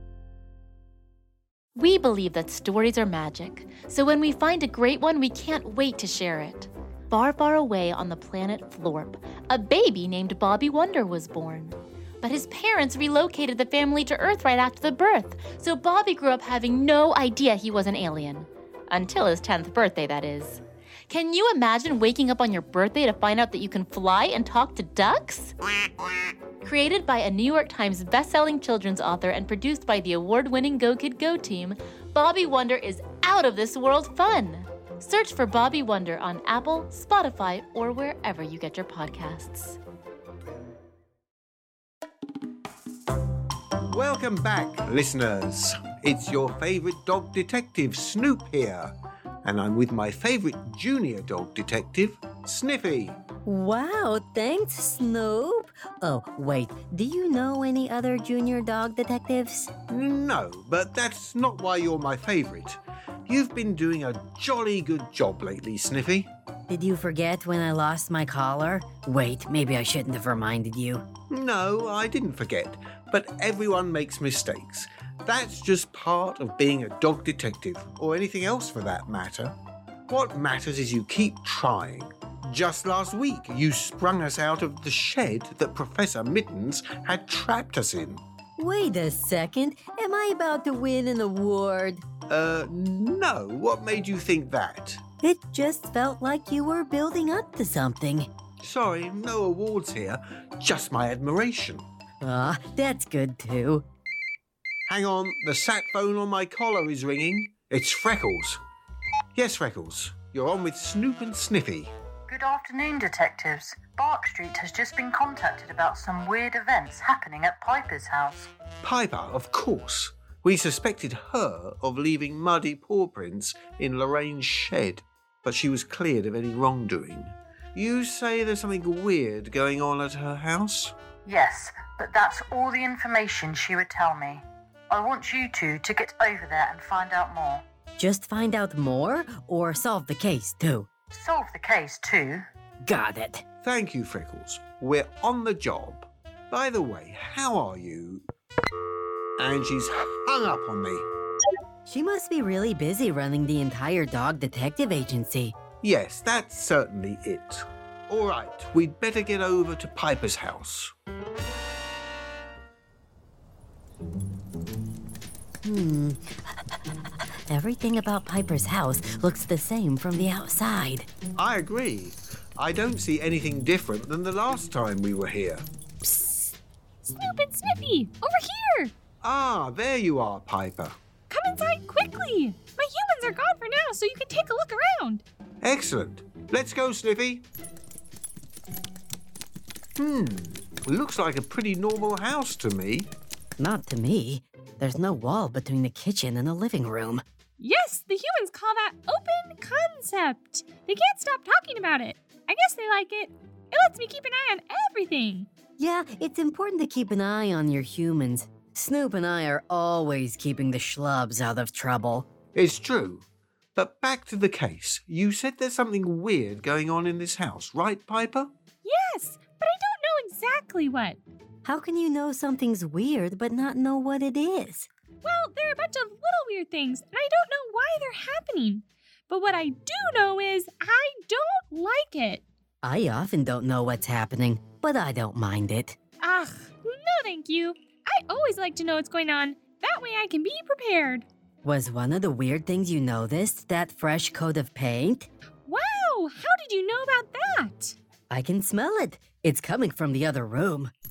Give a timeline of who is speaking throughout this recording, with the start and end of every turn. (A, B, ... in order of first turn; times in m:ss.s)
0:01.8-0:25.5 A
0:26.6-0:39.8 A
0:43.9-0:53.2 B
0:53.4-0:59.7 C
0:59.9-1:06.3 B
1:06.7-1:11.0 C
1:11.3-1:19.6 B
1:20.1-1:28.2 B
1:28.6-1:32.0 C
1:32.3-1:35.0 B
1:35.2-1:38.3 C
1:38.6-1:41.9 B
1:42.2-1:43.8 C
1:44.9-1:48.6 B
1:49.3-1:51.9 B
1:52.3-1:58.5 D
1:58.8-2:10.9 B
2:11.2-2:17.6 D
2:18.0-2:20.9 C
2:21.1-2:22.4 D
2:22.8-2:23.4 C
2:23.6-2:28.2 B
2:29.4-2:31.0 B
2:31.8-2:35.5 C
2:35.8-2:40.9 B
2:45.6-2:46.7 C
2:47.5-2:51.1 C
2:51.4-2:55.6 B
2:56.0-2:58.9 E
2:59.2-3:01.0 B
3:01.3-3:05.2 E
3:05.6-3:07.4 B
3:10.0-3:13.1 B
3:13.6-3:17.2 C
3:17.6-3:25.5 E
3:25.8-3:32.3 C
3:32.5-3:38.5 B
3:38.8-3:41.2 E
3:41.6-3:44.9 C
3:45.2-3:52.4 E
3:52.8-3:56.0 C
3:56.2-4:01.2 E
4:01.6-4:05.3 C
4:05.6-4:08.0 E
4:08.3-4:10.9 C